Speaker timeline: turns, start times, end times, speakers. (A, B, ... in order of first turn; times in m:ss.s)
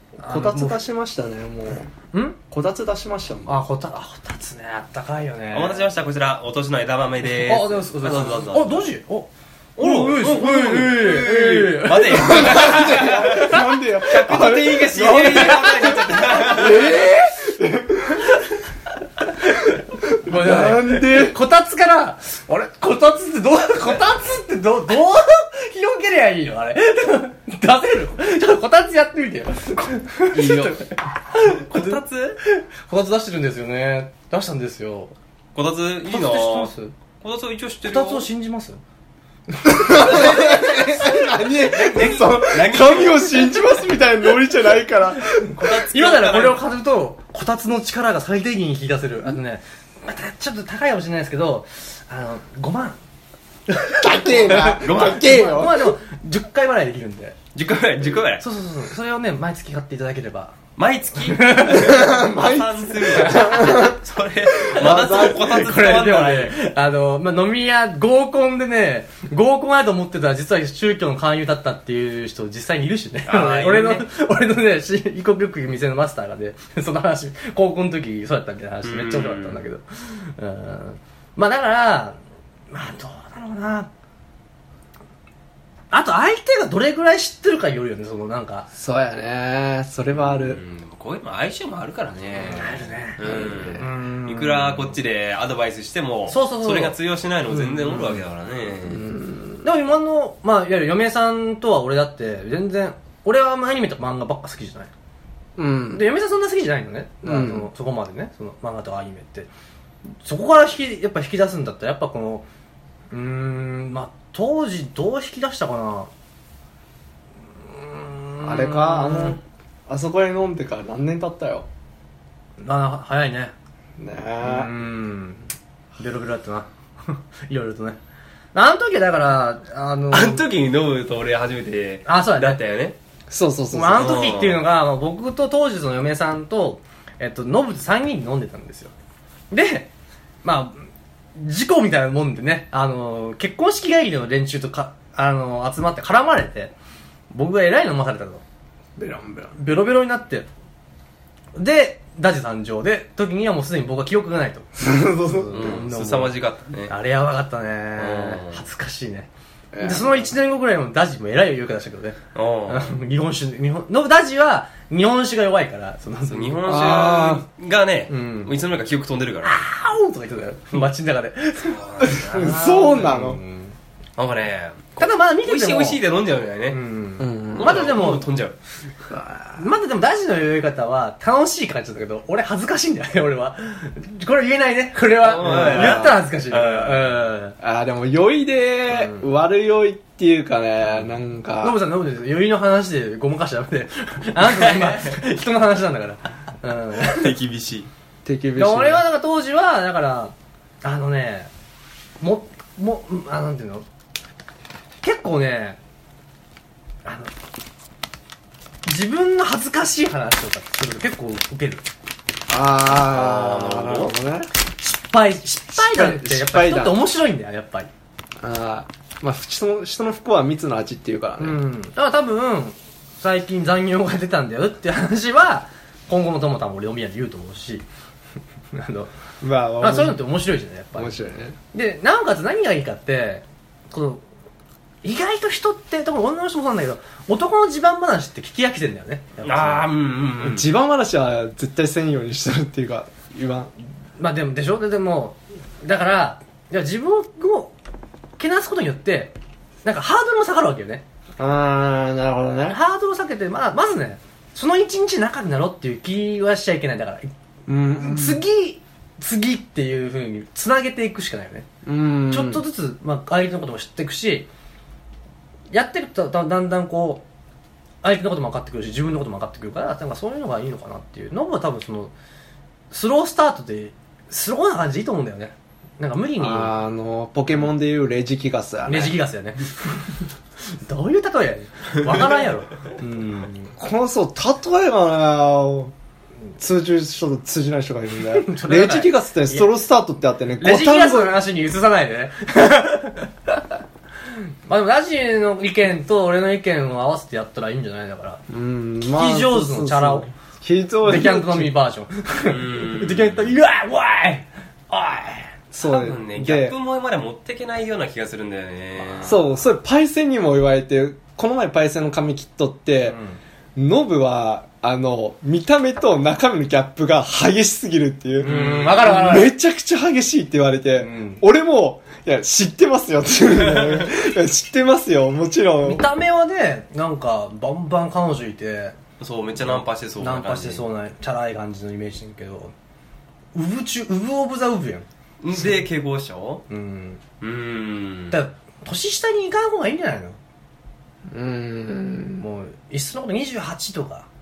0:00.2-0:01.9 A
0:00.2-0:00.8 B
0:02.1-0:02.4 B
0:02.5-0:03.6 A
0:03.5-0:05.8 B
0:05.5-0:08.9 C
0:07.3-0:13.6 B
0:09.8-0:16.9 C
0:12.1-0:18.3 A
0:15.0-0:16.9 B
0:19.5-0:35.1 B
0:20.0-0:21.4 A
0:30.3-0:30.8 C
0:31.4-0:32.4 C
0:35.5-0:38.3 C
0:36.1-0:36.9 B
0:37.8-0:38.8 B
0:39.6-0:45.6 A
0:39.6-0:41.2 B
0:40.1-0:40.6 C
0:41.4-0:43.6 C
0:45.5-0:46.6 C
0:45.9-0:53.0 B
0:53.7-0:57.4 B
0:53.9-0:55.9 A
0:54.5-0:55.5 C
0:57.5-0:58.4 C
0:58.4-1:00.6 B
1:00.8-1:06.6 C
1:01.2-1:02.0 B
1:01.7-1:04.0 A
1:04.6-1:05.4 A
1:04.9-1:22.2 B
1:13.2-1:14.1 C
1:18.8-1:19.6 C
1:22.7-1:23.9 B
1:25.9-1:28.7 B
1:28.7-1:30.6 A
1:30.2-1:39.0 C
1:32.4-1:33.2 B
1:33.2-1:33.8 A
1:33.7-1:34.8 B
1:36.3-1:37.0 B
1:37.5-1:38.2 A
1:38.8-1:39.6 A
1:39.6-1:44.9 B
1:45.6-1:46.0 A
1:45.9-1:49.5 B
1:47.2-1:47.7 A
1:50.2-1:52.4 B
1:53.1-1:56.1 B
1:57.6-1:59.4 B
1:58.4-2:01.7 A
2:02.6-2:03.5 B
2:04.0-2:04.7 A
2:04.4-2:08.0 B
2:08.5-2:10.4 B
2:10.1-2:12.9 C
2:12.0-2:12.6 B
2:13.3-2:14.4 A
2:13.7-2:18.9 B
2:14.0-2:14.6 C
2:19.5-2:19.9 B
2:20.4-2:26.7 B
2:27.3-2:28.4 B
2:29.0-2:29.6 A
2:29.6-2:30.5 B
2:31.6-2:36.4 B
2:34.8-2:35.8 A
2:35.5-2:36.9 C
2:36.9-2:39.3 B
2:38.0-2:38.6 C
2:39.7-2:40.3 A
2:39.8-2:46.9 B
2:42.3-2:43.0 C
2:46.3-2:49.6 C
2:46.6-2:47.4 A
2:48.1-2:48.6 B
2:49.4-2:53.8 B
2:51.6-2:52.7 C
2:52.0-2:53.4 A
2:54.2-2:56.8 C
2:55.0-2:56.0 B
2:56.7-2:58.3 B
2:57.2-2:58.0 A
2:57.5-2:58.6 C
2:59.1-2:59.6 A
2:59.5-3:07.6 B
3:05.2-3:07.2 C
3:05.4-3:06.2 A
3:07.6-3:11.8 A
3:08.9-3:09.2 B
3:11.6-3:17.3 B
3:14.5-3:15.1 C
3:17.0-3:17.9 C
3:18.2-3:19.0 A
3:18.6-3:21.5 B
3:22.2-3:23.8 B
3:25.0-3:25.8 B
3:27.0-3:27.3 B
3:28.8-3:31.8 B
3:32.5-3:34.5 A
3:33.0-3:34.1 C
3:34.8-3:37.9 B
3:35.7-3:37.0 A
3:38.4-3:41.6 A
3:41.4-3:47.8 B
3:48.7-3:49.1 B
3:49.4-3:50.2 A
3:49.8-3:51.2 B
3:50.9-3:51.6 A
3:51.7-3:54.2 B
3:55.0-3:59.9 B
3:59.4-4:00.7 C
4:00.4-4:03.7 A
4:04.2-4:07.7 B
4:08.4-4:11.0 B
4:11.4-4:12.8 A
4:12.7-4:17.3 B
4:17.7-4:18.4 A
4:17.9-4:21.7 B
4:21.8-4:22.6 A
4:22.3-4:24.5 B
4:25.7-4:27.2 B
4:28.0-4:32.1 B
4:32.9-4:36.7 B
4:36.4-4:39.2 A
4:38.9-4:39.8 B
4:40.7-4:43.7 B
4:43.8-4:45.9 A
4:46.6-4:51.4 A
4:48.3-4:49.7 B
4:50.6-4:53.6 B
4:54.6-4:58.4 B
4:58.5-5:01.7 A
4:59.0-5:00.3 B
5:01.0-5:05.5 B
5:02.4-5:03.5 C
5:05.7-5:06.7 A
5:05.8-5:09.4 C
5:09.2-5:13.2 A
5:13.1-5:13.4 B
5:13.8-5:26.1 A
5:18.4-5:19.5 B
5:18.4-5:19.0 C
5:21.0-5:21.4 B
5:23.8-5:24.1 C
5:25.8-5:28.9 B
5:29.2-5:30.8 C
5:29.7-5:32.7 B
5:33.5-5:35.1 B
5:35.4-5:36.6 C
5:36.7-5:37.2 B
5:37.4-5:38.4 C
5:38.3-5:40.4 B
5:41.3-5:42.4 A
5:42.4-5:44.3 B